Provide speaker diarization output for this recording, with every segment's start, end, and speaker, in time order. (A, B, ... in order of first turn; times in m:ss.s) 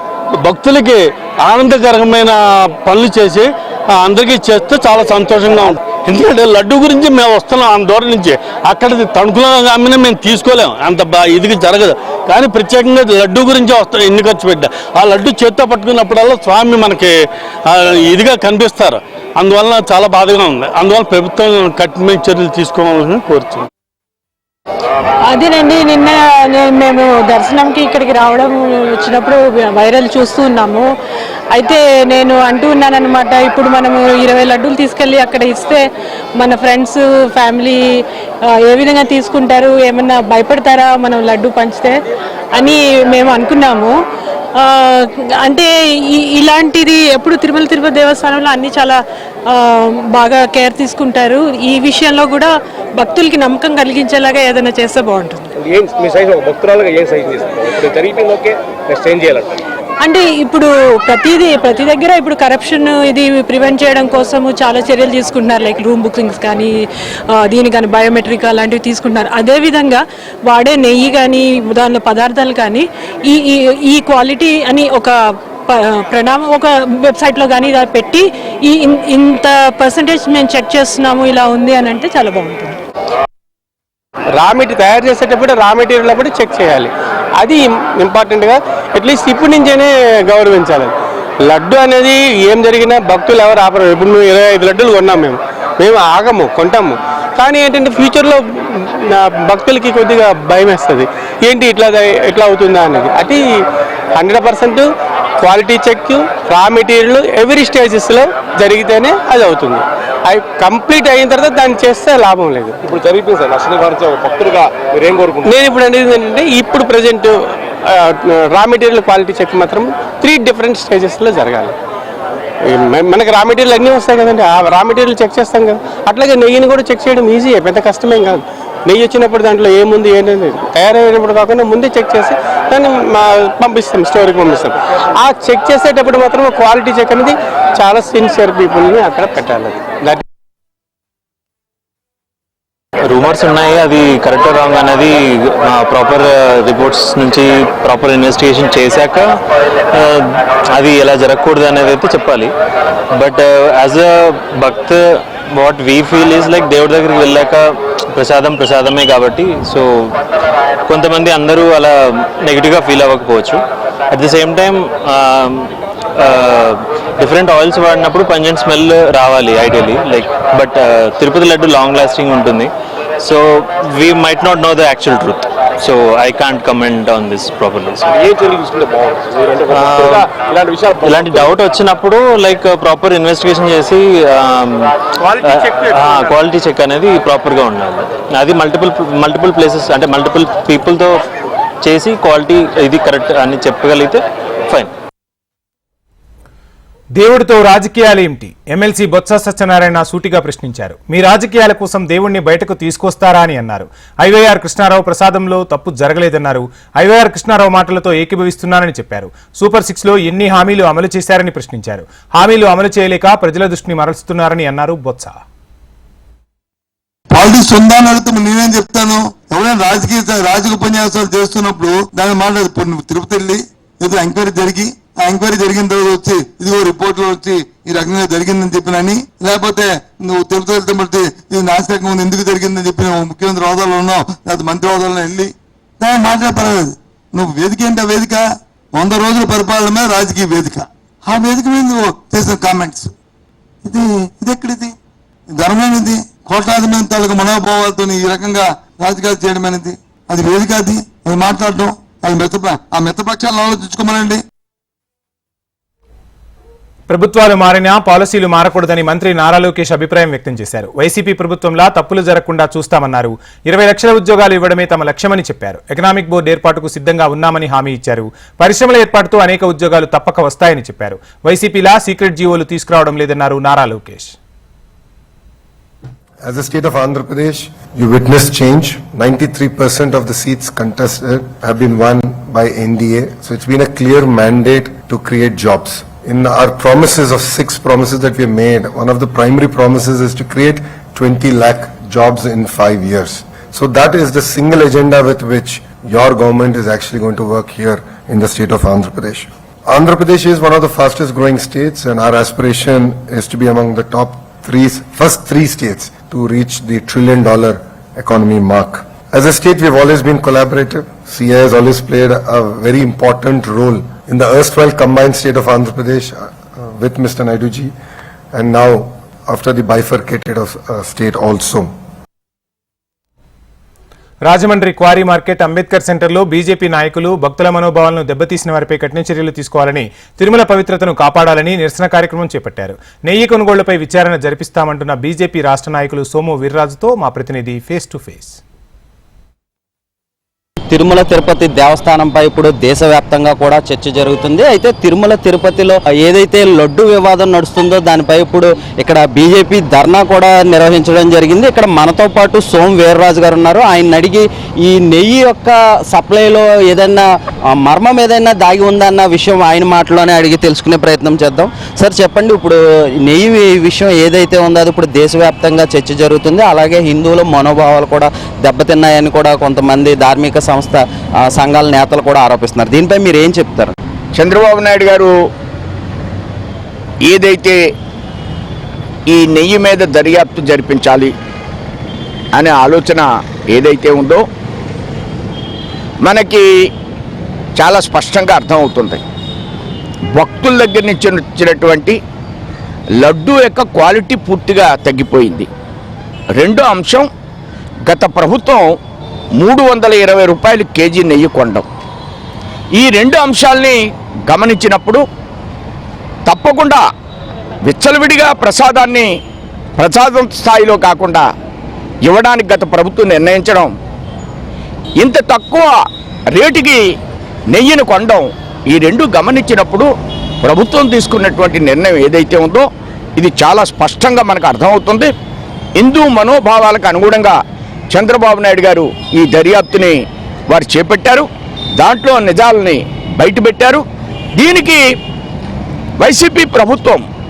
0:00.4-0:17.1 A
0:17.7-0:23.7 A
0:25.3-0:30.9 B
0:31.5-0:35.8 B
0:36.4-0:37.8 B
0:38.5-0:42.0 B
0:42.5-0:43.9 B
0:44.6-0:49.0 B
0:49.5-0:55.5 B
0:55.7-0:58.4 C
0:59.0-0:59.3 C
1:00.0-1:15.2 B
1:15.7-1:22.8 B
1:24.4-1:30.9 D
1:31.5-1:43.4 D
1:44.2-1:44.9 D
1:45.4-1:52.8 D
1:52.8-1:55.5 C
1:55.4-2:01.7 D
2:02.6-2:20.2 D
2:23.0-2:29.4 E
2:29.9-2:32.5 E
2:33.2-2:40.1 E
2:40.9-2:58.1 E
2:58.3-3:01.5 C
2:59.7-3:00.3 E
3:01.0-3:11.2 E
3:11.8-3:14.9 E
3:17.2-3:35.4 F
3:37.3-4:03.1 G
4:03.8-4:04.9 G
4:05.5-4:14.4 G
4:17.1-4:34.4 F
4:36.4-5:17.9 H
5:18.5-5:21.9 H
5:24.4-5:38.6 F
5:40.9-6:13.9 I
6:14.4-6:15.3 J
6:17.3-6:17.8 J
6:19.3-6:21.3 J
6:22.5-6:24.4 J
6:26.2-6:26.6 J
6:27.8-6:29.2 J
6:30.3-6:32.2 J
6:33.2-6:35.7 J
6:36.6-6:37.3 J
6:38.1-6:38.9 J
6:39.6-6:41.8 J
6:43.0-6:45.2 J
6:46.4-6:47.0 J
6:47.8-6:49.3 J
6:50.0-6:51.4 J
6:52.2-6:53.9 J
6:55.2-6:55.9 J
6:56.5-6:57.0 J
6:57.7-7:00.1 J
7:00.6-7:02.8 J
7:03.4-7:05.3 J
7:06.0-7:07.6 J
7:08.1-7:10.2 J
7:10.7-7:11.5 J
7:12.0-7:14.0 J
7:14.6-7:15.0 J
7:16.2-7:17.2 J